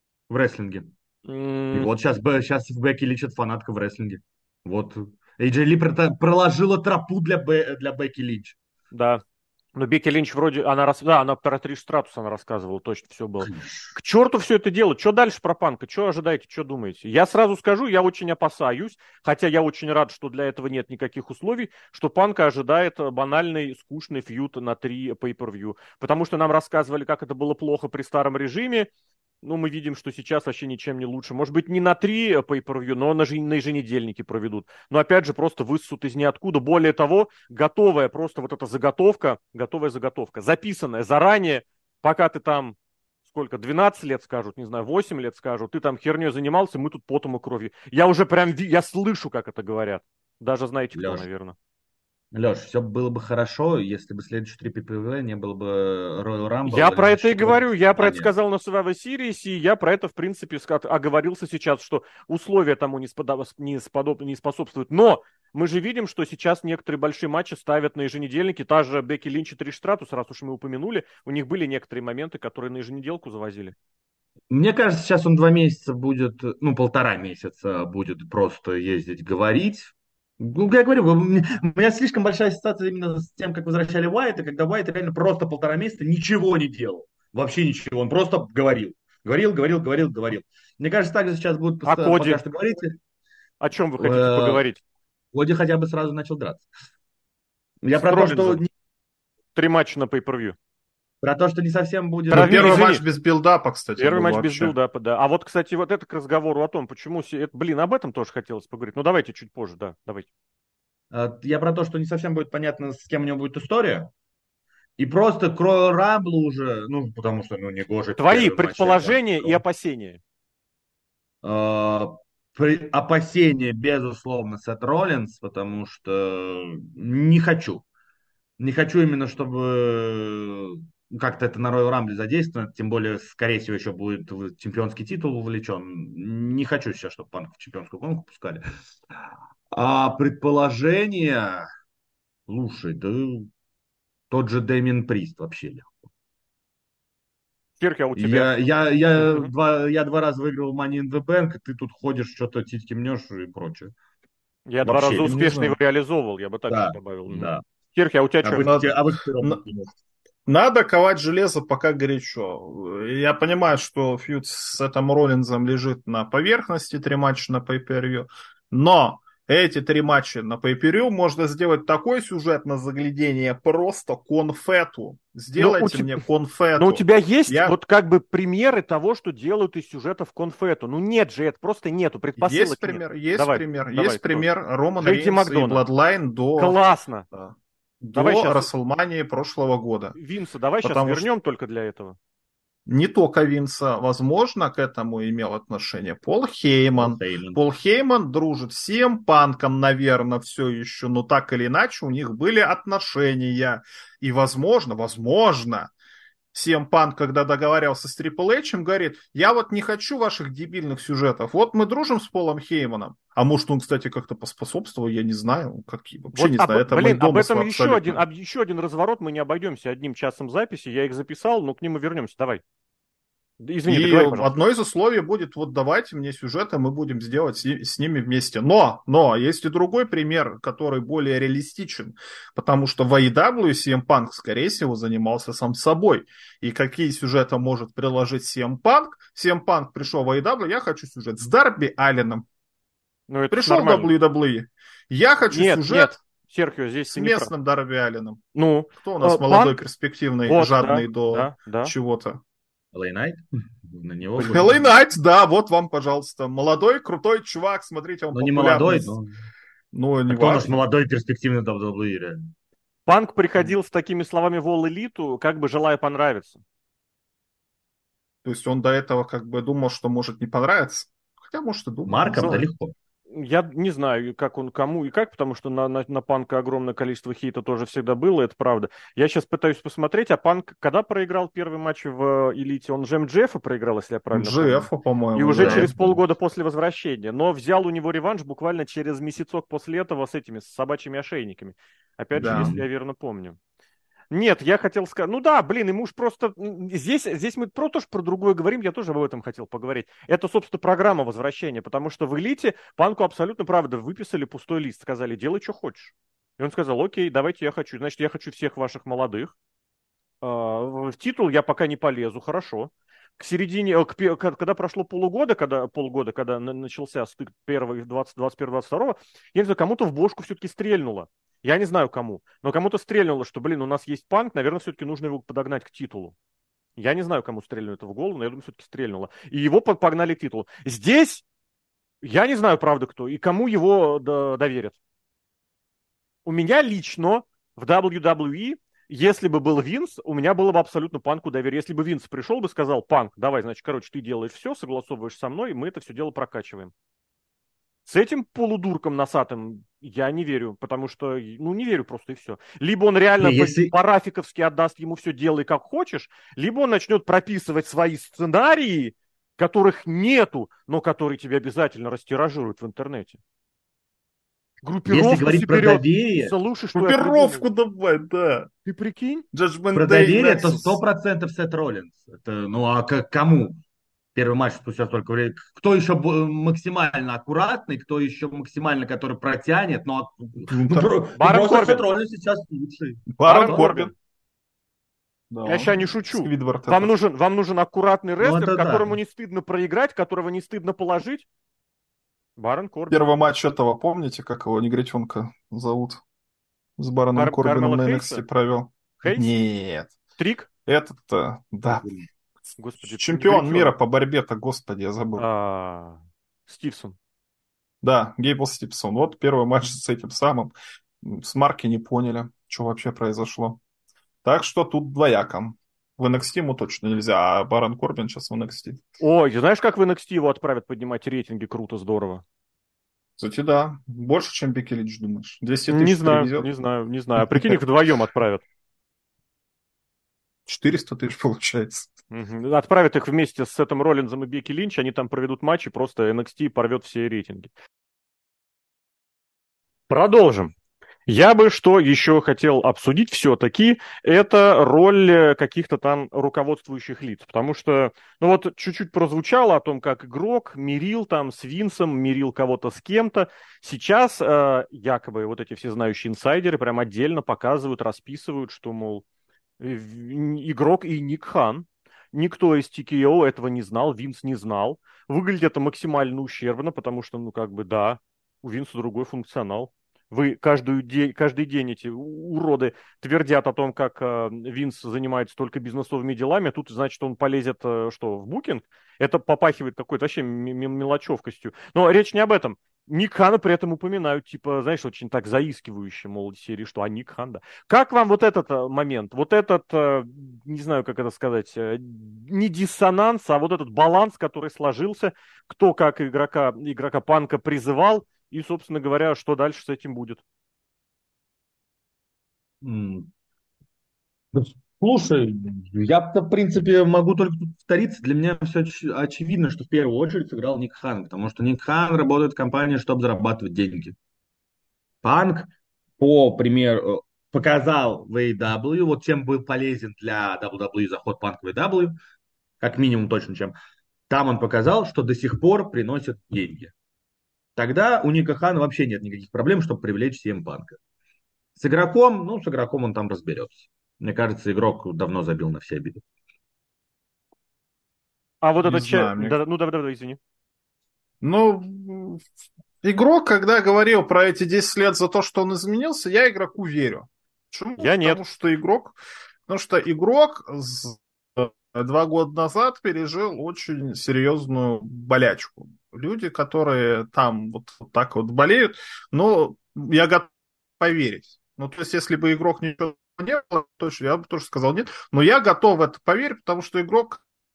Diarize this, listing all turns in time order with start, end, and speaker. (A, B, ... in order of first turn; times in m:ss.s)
0:00.3-0:00.9 A
0:01.3-0:01.9 B
0:01.7-0:08.6 A
0:08.9-0:09.2 B
0:09.8-0:28.9 B
0:13.4-0:14.0 A
0:29.4-0:51.6 B
0:50.9-0:51.3 A
0:52.3-0:58.3 A
0:56.7-1:13.8 B
1:14.5-1:33.0 A
1:31.9-1:32.4 B
1:33.6-1:34.8 B
1:34.0-1:34.7 A
1:35.3-1:36.7 A
1:37.8-1:38.7 A
1:38.0-1:38.6 B
1:39.6-1:40.6 B
1:41.2-1:42.9 A
1:42.3-1:43.0 B
1:42.3-1:44.7 C
1:44.0-1:50.3 B
1:51.1-1:54.1 A
1:55.0-1:59.6 A
1:58.2-2:00.2 B
2:01.4-2:07.8 A
2:08.6-2:18.6 A
2:19.7-2:21.7 A
2:22.5-2:23.5 A
2:24.3-2:26.0 A
2:27.8-2:28.5 B
2:28.2-2:33.9 A
2:29.2-2:29.5 B
2:34.7-2:38.7 B
2:34.8-2:35.3 A
2:34.9-2:35.8 C
2:36.7-2:37.6 A
2:38.4-2:39.9 A
2:38.6-2:39.6 C
2:40.5-2:57.8 C
2:55.6-2:56.2 B
2:56.8-3:05.8 B
3:02.4-3:06.8 C
3:06.6-3:07.3 B
3:07.3-3:10.2 C
3:08.2-3:08.7 B
3:10.2-3:12.2 B
3:10.8-3:11.3 C
3:12.9-3:25.9 C
3:17.0-3:17.6 A
3:26.5-3:38.2 C
3:36.3-3:42.6 B
3:43.6-3:44.5 B
3:43.9-4:02.5 C
4:03.3-4:04.1 B
4:03.5-4:06.2 C
4:05.5-4:07.5 B
4:07.1-4:08.4 C
4:08.6-4:09.8 B
4:08.9-4:12.4 C
4:10.4-4:11.9 B
4:12.9-4:14.9 A
4:14.4-4:19.2 C
4:18.3-4:19.3 A
4:19.9-4:20.8 C
4:20.3-4:22.5 A
4:23.1-4:26.6 B
4:28.4-4:32.6 C
4:32.0-4:32.9 A
4:33.3-4:53.6 B
4:44.3-4:46.0 C
4:45.6-4:46.1 A
4:52.3-4:52.8 C
4:52.4-4:52.8 A
4:54.3-5:09.5 B
5:10.4-5:26.4 B
5:27.0-5:31.4 B
5:32.2-5:35.0 B
5:36.4-5:46.9 B
5:48.1-6:03.4 B
5:53.4-5:53.9 A
6:04.8-6:07.7 B
6:05.1-6:06.5 A
6:06.9-6:08.7 C
6:08.9-6:09.5 B
6:09.5-6:11.0 C
6:09.9-6:13.8 A
6:14.4-6:23.9 A
6:20.7-6:21.1 C
6:21.4-6:22.0 B
6:23.3-6:24.1 C
6:23.4-6:24.1 B
6:25.5-6:27.2 C
6:25.6-6:31.5 B
6:28.4-6:29.2 A
6:32.6-6:33.2 B
6:33.1-6:36.2 C
6:37.0-6:40.2 C
6:37.4-6:38.4 B
6:39.2-6:39.5 B
6:40.4-6:40.7 B
6:40.9-6:42.1 C
6:42.8-6:43.9 B
6:43.0-6:45.5 C
6:45.4-6:47.2 B
6:48.0-6:53.8 C
6:54.4-6:59.0 C
6:59.2-7:02.4 B
7:03.4-7:06.7 C
7:05.9-7:08.6 B
7:07.4-7:07.8 C
7:10.7-7:12.1 C
7:12.3-7:17.7 B
7:20.1-7:20.7 B
7:21.3-7:39.2 B
7:39.8-8:20.4 B
8:22.8-8:23.3 A
8:24.5-8:34.2 A
8:35.2-8:42.2 A
8:42.8-8:43.8 A
8:44.3-8:46.9 A
8:47.8-8:51.0 A
8:51.8-8:56.2 A
8:58.6-9:00.4 B
8:58.8-8:59.6 C
9:01.4-9:02.4 C
9:03.0-9:27.4 C
9:08.0-9:08.4 B